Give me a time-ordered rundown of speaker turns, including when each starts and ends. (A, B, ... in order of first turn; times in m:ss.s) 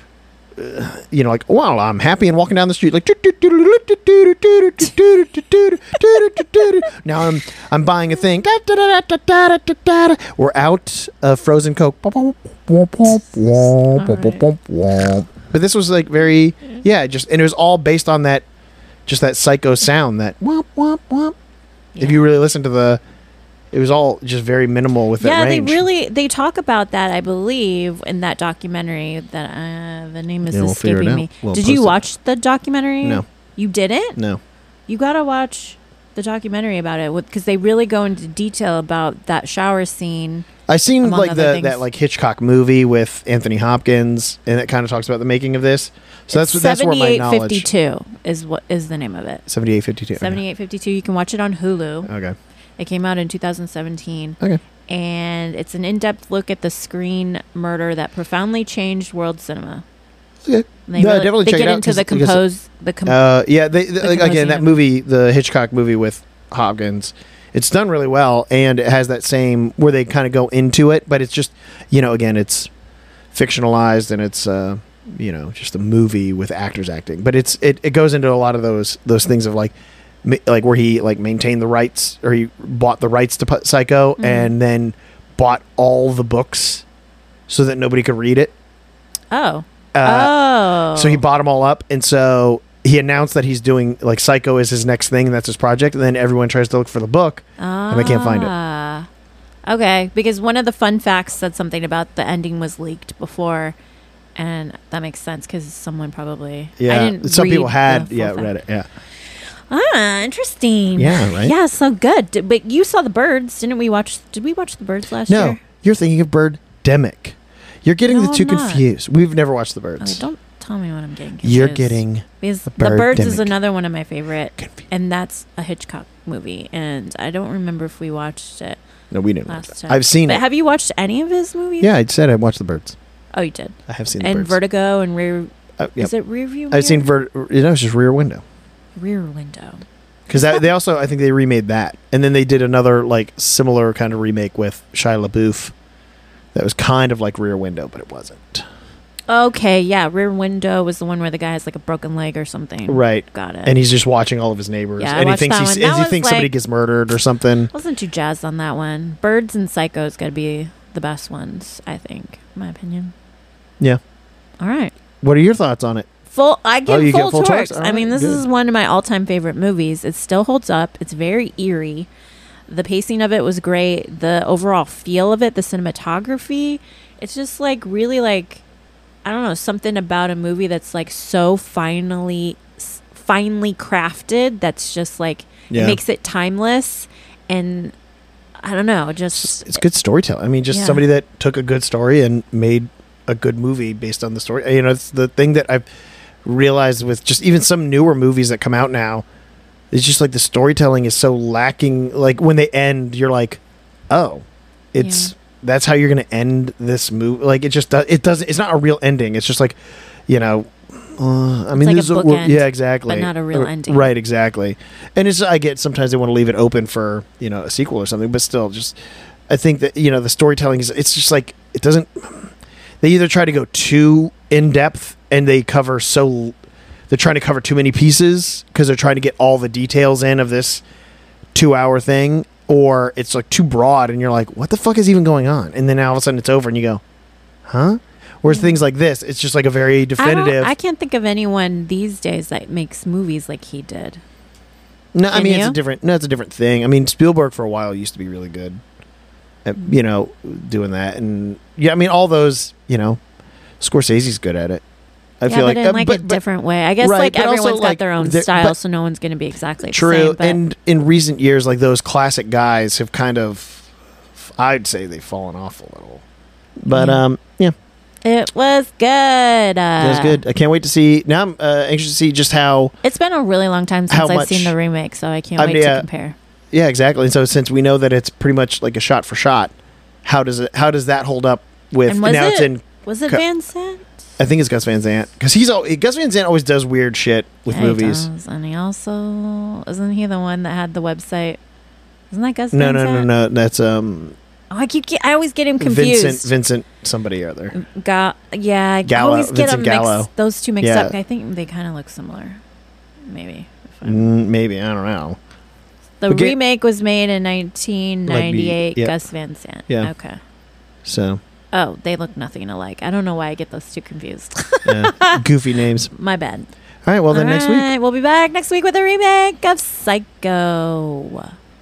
0:00.6-0:18.4 A
0:13.9-0:14.4 B
0:19.0-0:21.3 A
0:21.9-0:22.2 B
0:22.0-0:23.0 A
0:23.7-0:25.8 A
0:25.2-0:34.2 B
0:30.5-0:32.0 A
0:34.2-0:34.4 A
0:34.9-0:40.5 B
0:40.7-0:47.7 A
0:41.0-0:41.8 B
0:46.3-0:49.4 B
0:49.5-0:50.4 A
0:50.2-0:52.1 B
0:52.0-0:52.4 A
0:52.8-0:59.8 B
1:00.4-1:02.4 A
1:00.9-1:03.2 B
1:03.0-1:12.7 A
1:04.0-1:04.8 B
1:13.3-1:26.8 A
1:24.2-1:24.5 B
1:27.5-1:28.5 A
1:29.3-1:31.2 B
1:29.9-1:30.4 A
1:30.9-1:38.5 A
1:37.6-1:39.1 B
1:39.7-1:43.8 B
1:44.4-1:48.5 B
1:46.8-1:48.9 A
1:49.7-1:55.6 B
1:51.0-1:51.5 A
1:55.3-2:00.2 A
1:58.1-1:58.8 B
2:00.0-2:08.8 B
2:01.4-2:03.5 A
2:04.6-2:04.8 A
2:09.1-2:10.4 A
2:09.5-2:11.9 B
2:11.8-2:13.0 A
2:13.3-2:17.1 B
2:13.9-2:14.6 A
2:15.8-2:16.1 A
2:16.7-2:18.4 A
2:19.0-2:19.8 B
2:20.3-2:25.7 A
2:20.4-2:20.6 B
2:26.5-2:28.6 A
2:29.3-2:33.7 B
2:32.9-2:37.7 A
2:35.0-2:36.5 B
2:37.7-2:43.1 B
2:44.6-2:44.9 B
2:45.2-2:46.1 A
2:46.3-2:52.1 B
2:46.9-2:48.5 A
2:52.7-2:58.6 B
2:59.2-3:07.9 B
3:05.7-3:06.0 A
3:08.6-3:09.8 B
3:09.3-3:15.8 A
3:10.7-3:11.0 B
3:16.4-3:19.2 A
3:19.9-3:39.0 A
3:25.0-3:25.3 B
3:31.7-3:34.1 B
3:39.5-3:46.6 A
3:47.1-3:50.8 A
3:51.5-3:57.0 A
3:57.6-4:00.7 A
3:58.5-3:58.8 B
4:00.2-4:04.2 B
4:05.1-4:08.8 A
4:05.3-4:05.8 B
4:09.6-4:13.2 A
4:13.8-4:14.8 A
4:15.4-4:16.4 A
4:15.5-4:20.6 B
4:17.0-4:18.8 A
4:19.9-4:26.2 A
4:26.8-4:27.7 A
4:26.9-4:27.2 B
4:28.2-4:30.4 B
4:30.0-4:32.9 A
4:33.0-4:36.4 B
4:34.1-4:34.7 A
4:35.6-4:36.1 A
4:36.7-4:39.7 A
4:40.2-4:43.4 A
4:42.0-4:44.1 B
4:44.4-4:48.3 A
4:47.7-4:51.6 B
4:52.3-4:53.3 B
4:52.7-4:54.4 A
4:54.7-4:56.5 B
4:55.8-4:57.7 A
4:57.7-5:02.6 B
4:59.1-5:00.3 A
5:00.8-5:01.1 A
5:03.2-5:04.2 B
5:04.0-5:05.4 A
5:06.2-5:10.4 B
5:06.3-5:06.6 A
5:08.3-5:09.1 A
5:11.0-5:11.4 A
5:11.7-5:15.4 B
5:14.8-5:16.1 A
5:16.1-5:16.7 B
5:17.0-5:17.9 A
5:17.3-5:21.6 B